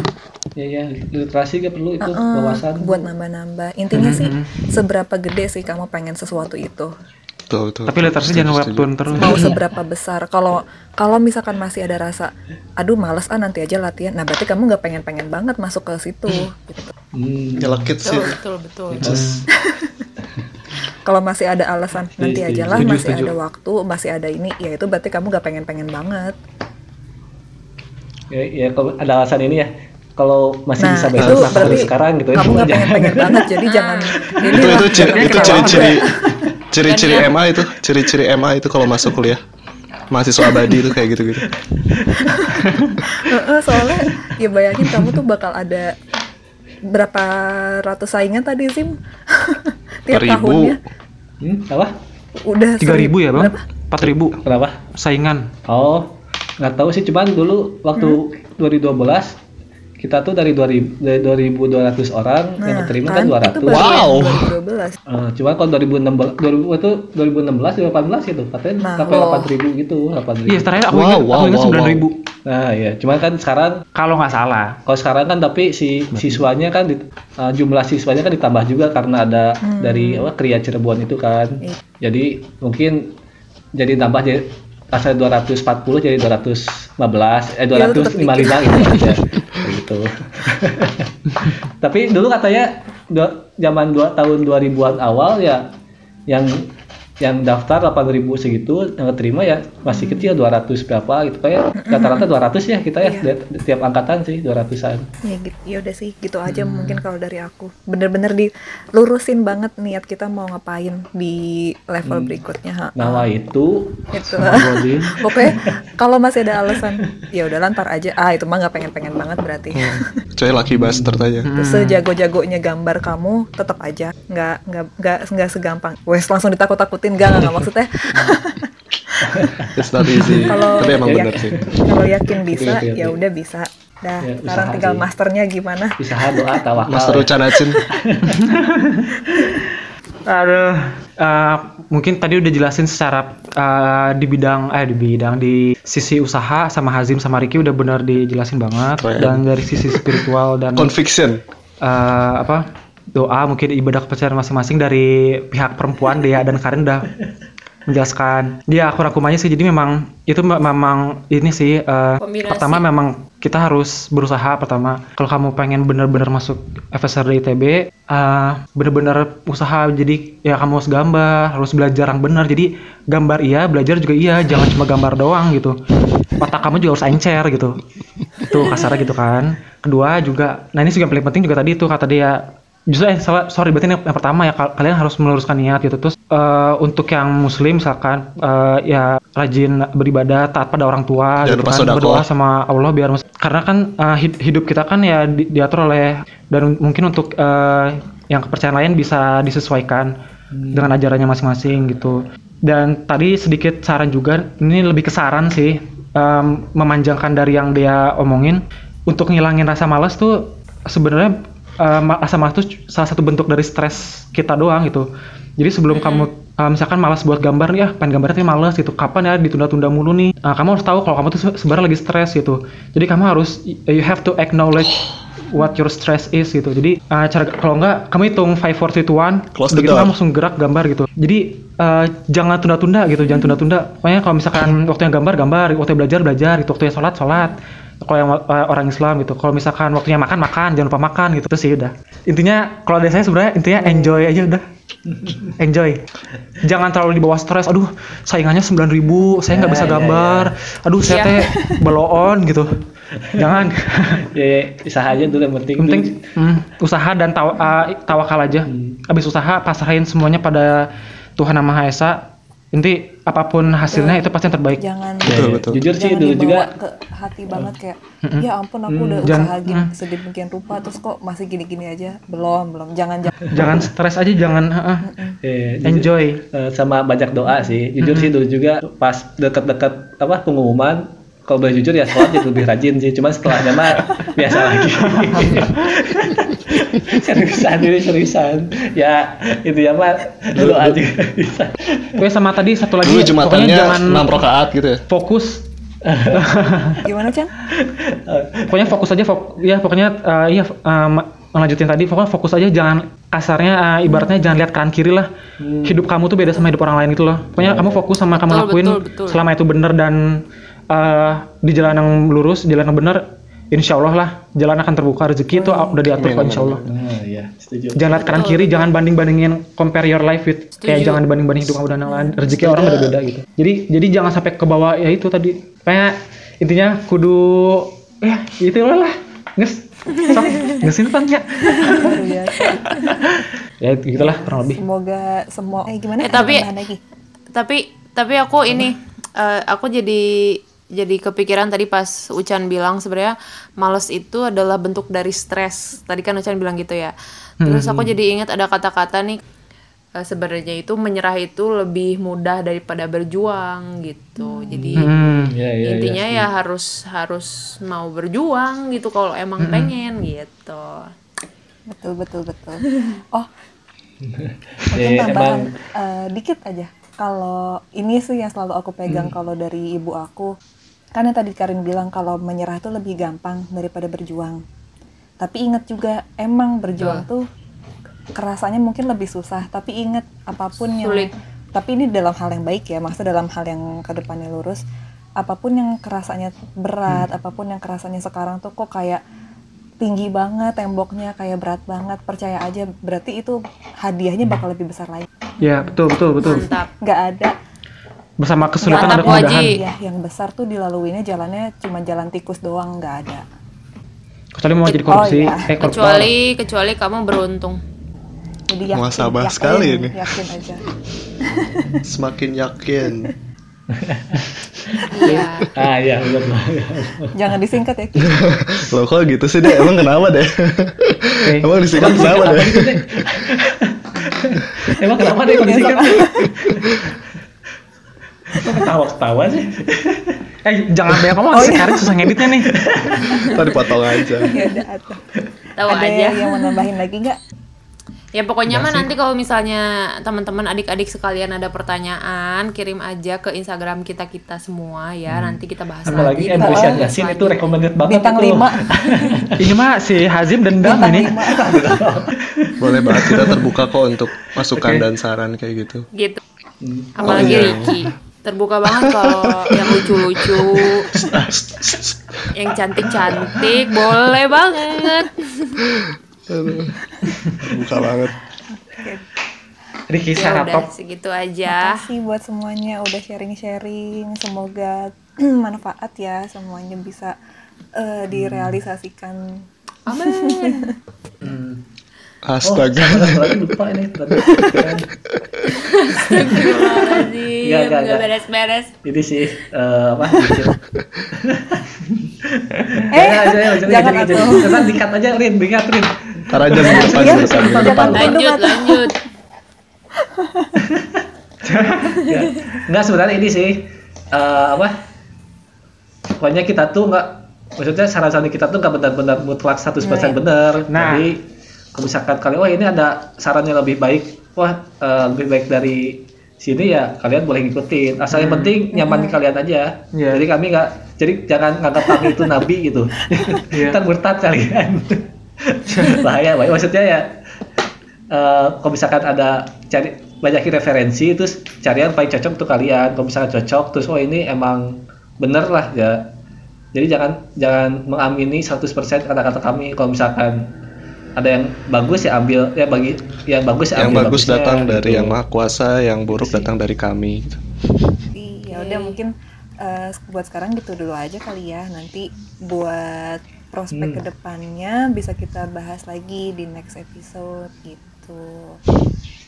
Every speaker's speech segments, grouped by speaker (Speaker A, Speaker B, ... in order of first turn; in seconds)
Speaker A: 0.6-3.1, 17.1-18.0, 18.9-19.4, 22.2-23.0, 28.3-33.5, 41.7-42.5, 44.9-45.1, 51.4-51.9, 54.4-54.8, 55.7-59.4, 60.0-64.1, 65.1-70.7, 72.5-73.8, 74.9-83.1, 83.8-95.7, 96.3-96.7, 97.2-105.1, 112.0-112.4, 113.0-115.7, 120.7-121.3, 129.3-133.2, 134.2-135.1, 136.0-138.4, 200.5-200.9, 245.1-245.5, 249.5-250.5, 254.2-256.2, 258.7-259.0, 265.2-266.7, 268.9-269.5, 275.4-292.2, 296.1-296.4, 297.7-298.7, 305.6-306.0, 307.6-308.0, 316.9-318.1, 354.7-356.5, 364.2-365.7, 369.1-369.3, 413.9-417.3, 421.9-427.2, 428.5-430.4, 432.7-434.5, 438.7-439.1, 445.3-449.6, 451.5-453.7, 454.8-455.0, 456.8-457.8, 478.3-478.8, 481.4-481.8, 482.6-485.1, 486.3-487.0, 487.6-488.3, 489.1-490.8, 491.4-498.4, 500.8-501.2, 502.3-505.0, 506.4-511.4, 511.9-527.3, 528.3-536.3, 536.9-540.6, 541.4-545.4, 546.3-546.7, 553.9-554.2
Speaker B: 2.0-6.9, 9.2-16.9, 19.6-19.9, 21.1-26.4, 30.8-36.4, 42.2-42.5, 43.1-45.9, 46.9-50.8, 52.4-53.6, 62.6-65.0, 68.8-69.5, 79.7-80.3, 87.7-89.2, 99.9-100.3, 101.8-102.3, 103.0-103.3, 105.3-113.3, 114.1-120.0, 121.6-129.5, 130.3-136.6, 243.8-244.3, 249.5-249.9, 251.5-251.8, 255.1-255.3, 263.9-273.3, 275.1-275.4, 297.1-297.5, 304.1-304.4, 315.5-316.4, 322.1-322.5, 331.8-333.2, 334.2-337.0, 361.9-363.5, 364.9-370.5, 371.1-374.6, 375.4-377.5, 378.4-384.8, 385.4-389.2, 390.0-397.6, 398.8-403.4, 405.1-405.7, 408.7-410.9, 411.4-412.0, 417.3-418.6, 425.2-426.5, 431.5-432.0, 434.4-435.2, 435.9-437.4, 446.6-447.1, 448.0-449.3, 450.8-452.0, 468.9-469.2, 471.7-477.4, 478.0-480.9, 493.1-495.0, 496.8-499.1, 500.4-500.7, 510.0-510.4, 518.9-519.4, 548.3-558.8
Speaker C: 3.9-4.6, 7.9-9.5, 22.7-23.3, 34.7-36.0, 42.6-43.0, 52.8-54.4, 54.9-55.5, 70.5-72.2, 74.0-74.8, 106.5-107.0, 114.4-115.2, 121.4-122.0, 138.3-139.0, 140.3-150.9, 151.8-157.1, 157.9-175.8, 176.4-177.8, 178.4-200.1, 200.7-215.1, 215.6-244.6, 245.6-246.0, 246.6-252.7, 253.3-254.2, 255.8-260.9, 261.4-264.8, 269.2-269.9, 273.5-275.1, 275.9-276.4, 278.0-278.3, 285.2-285.6, 292.2-294.4, 295.1-295.7, 296.3-297.0, 298.7-305.3, 305.9-310.4, 310.9-316.9, 317.9-332.2, 333.8-334.8, 347.6-348.1, 355.0-355.5, 359.6-359.9, 395.6-396.7, 398.4-399.8, 404.6-406.3, 421.4-421.7, 430.6-432.7, 449.6-451.4, 470.1-470.9, 501.6-502.3, 510.9-511.3, 518.3-518.8, 520.1-520.4, 523.7-524.0, 525.9-526.2
Speaker D: 7.5-9.2, 17.6-18.4, 19.0-19.4, 31.2-31.9, 34.5-36.0, 36.7-39.4, 40.1-41.5, 50.1-50.8, 63.7-64.5, 70.9-72.1, 119.7-121.5, 129.8-131.6, 136.9-137.8, 149.0-149.4, 150.8-151.4, 191.4-192.2, 229.5-230.1, 265.2-265.8, 290.6-291.0, 293.0-295.0, 316.2-316.9, 408.9-410.2, 412.1-413.3, 418.2-423.0, 433.5-434.5, 452.8-456.1, 457.2-458.0, 458.9-462.5, 463.2-463.5, 465.9-466.9, 467.6-468.4, 482.4-483.6, 484.4-484.7, 496.5-498.3, 544.0-547.6
Speaker E: 18.0-19.1, 33.6-34.4, 36.8-37.4, 162.2-162.8, 215.9-216.3, 251.1-251.4, 308.5-309.4, 318.2-318.7, 320.8-321.2, 336.2-336.8, 337.6-349.4, 350.2-355.1, 355.8-361.1, 362.9-363.1, 377.0-377.2, 381.0-381.3, 396.4-396.9, 398.9-399.8, 405.8-407.8, 415.1-415.7, 433.2-433.7, 435.8-436.6, 438.4-447.7, 456.1-456.4, 457.2-461.1, 462.5-465.8, 470.3-472.1, 480.1-480.9, 485.7-488.9, 498.0-499.2, 548.7-549.2